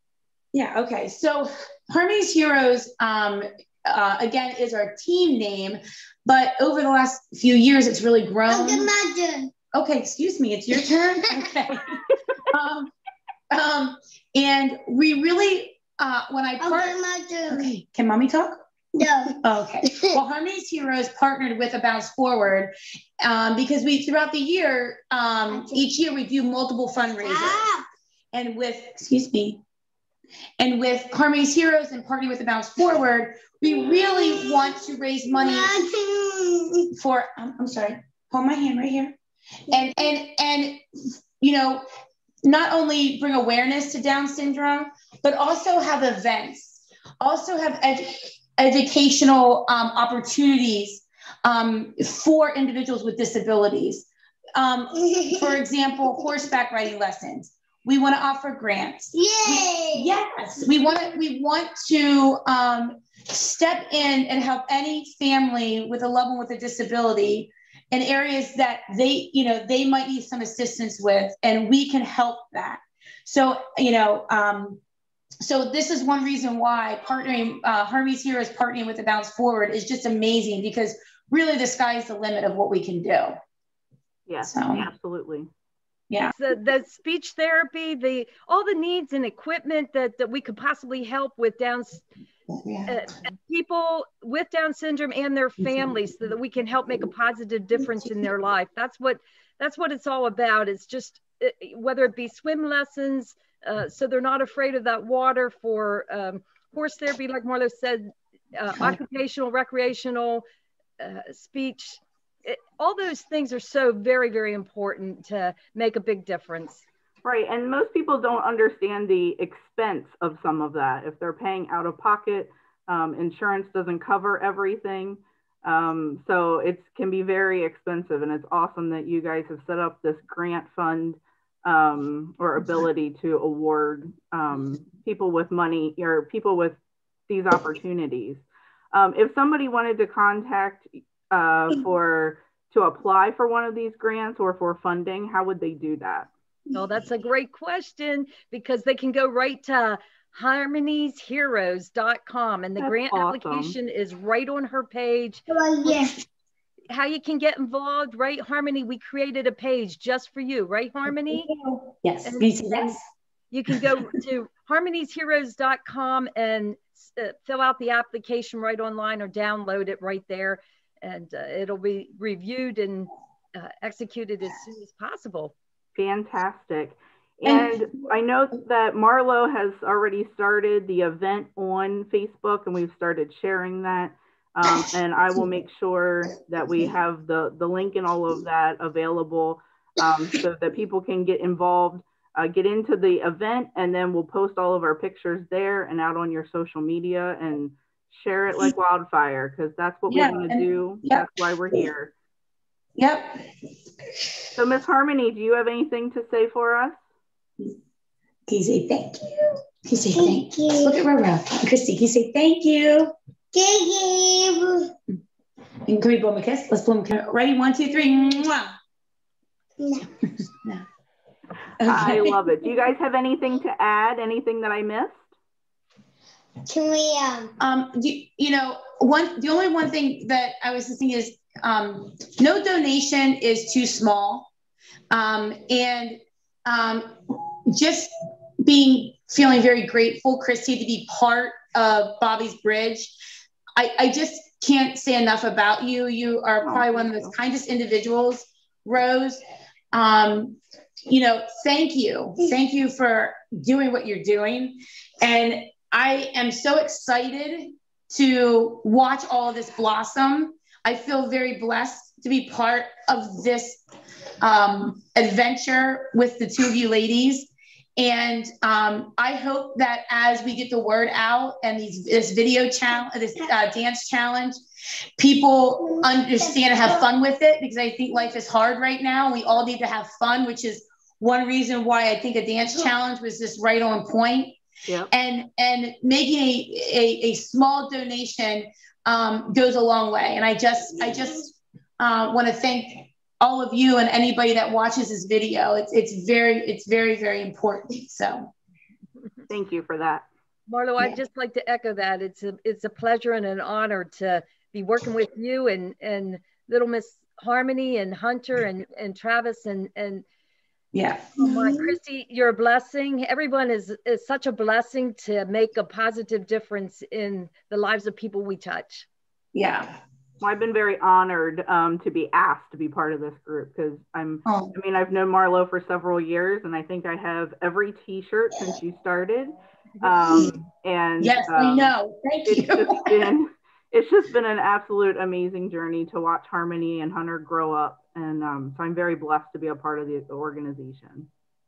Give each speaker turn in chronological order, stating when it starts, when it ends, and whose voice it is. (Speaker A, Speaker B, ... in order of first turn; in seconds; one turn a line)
Speaker A: 0.5-8.9
Speaker B: 8.5-9.5
Speaker A: 9.7-12.9
Speaker A: 13.5-16.9
Speaker B: 16.6-17.7
Speaker A: 17.5-22.7
Speaker B: 19.0-20.2
Speaker A: 23.2-27.7
Speaker B: 25.5-25.9
Speaker B: 27.2-27.8
Speaker A: 28.3-29.6
Speaker A: 30.6-35.7
Speaker B: 33.8-36.9
Speaker A: 37.0-39.2
Speaker A: 39.7-40.8
Speaker B: 39.7-40.0
Speaker A: 41.4-41.8
Speaker A: 42.4-74.8
Speaker B: 55.0-55.6
Speaker B: 59.1-60.1
Speaker A: 75.4-83.4
Speaker C: 84.3-85.5
Speaker A: 84.4-84.9
Speaker A: 86.1-86.3
Speaker D: 86.3-92.0
Speaker A: 92.5-93.2
Speaker D: 92.9-110.4
Speaker A: 95.6-96.0
Speaker D: 111.0-116.8
Speaker C: 117.2-146.3
Speaker D: 146.7-156.0
Speaker C: 152.8-153.7
Speaker B: 155.5-156.2
Speaker D: 156.9-161.5
Speaker B: 161.3-161.8
Speaker A: 162.0-163.0
Speaker D: 162.2-163.0
Speaker D: 163.5-175.5
Speaker C: 175.9-202.1
Speaker A: 177.4-177.8
Speaker A: 200.1-201.3
Speaker A: 203.0-203.4
Speaker C: 204.6-207.0
Speaker A: 208.5-213.1
Speaker B: 210.1-211.0
Speaker B: 213.5-214.9
Speaker A: 215.9-218.7
Speaker B: 219.8-220.1
Speaker A: 221.8-222.4
Speaker C: 221.8-225.3
Speaker B: 226.7-227.5
Speaker A: 227.6-234.5
Speaker A: 235.1-237.1
Speaker A: 237.7-238.1
Speaker A: 238.6-243.1
Speaker A: 243.8-249.4
Speaker C: 246.6-247.3
Speaker A: 249.9-263.8
Speaker A: 264.4-274.6
Speaker A: 275.2-284.6
Speaker B: 275.9-277.0
Speaker A: 285.1-298.5
Speaker C: 299.5-300.3
Speaker D: 300.7-310.2
Speaker A: 310.9-311.4
Speaker D: 311.4-319.1
Speaker B: 311.4-311.9
Speaker A: 319.5-319.9
Speaker C: 320.4-331.9
Speaker A: 324.4-324.7
Speaker A: 330.2-330.6
Speaker A: 331.2-333.3
Speaker C: 332.4-341.3